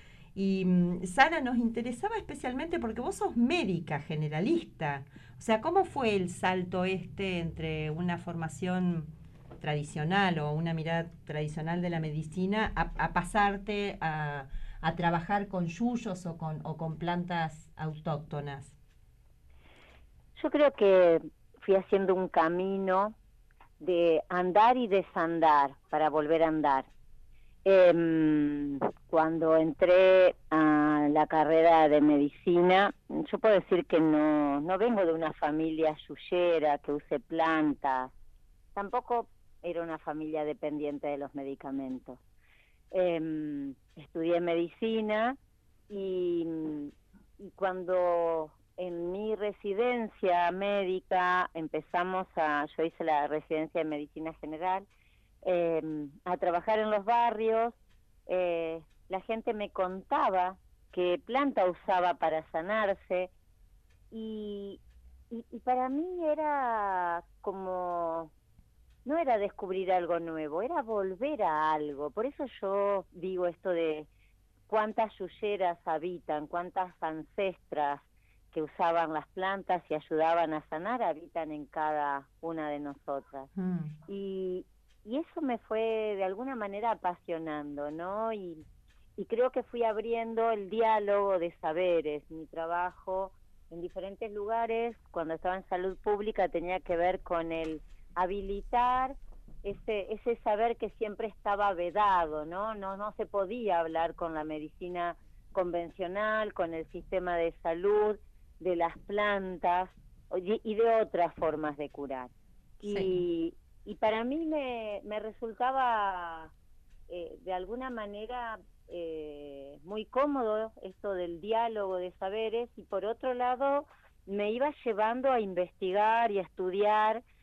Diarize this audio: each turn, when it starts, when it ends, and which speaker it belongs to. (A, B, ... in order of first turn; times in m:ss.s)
0:00.3-0:18.8 A
0:20.4-0:23.2 B
0:23.8-0:26.9 B
0:27.6-0:38.1 B
0:38.7-0:42.2 B
0:42.9-0:45.4 B
0:45.9-0:54.8 B
0:55.4-1:03.3 B
1:04.1-1:04.8 B
1:05.3-1:08.3 B
1:09.0-1:14.1 B
1:14.7-1:23.5 B
1:23.6-1:23.9 A
1:24.1-1:28.6 B
1:29.2-1:52.3 B
1:52.8-1:56.5 B
1:52.8-1:53.2 A
1:57.1-2:07.2 B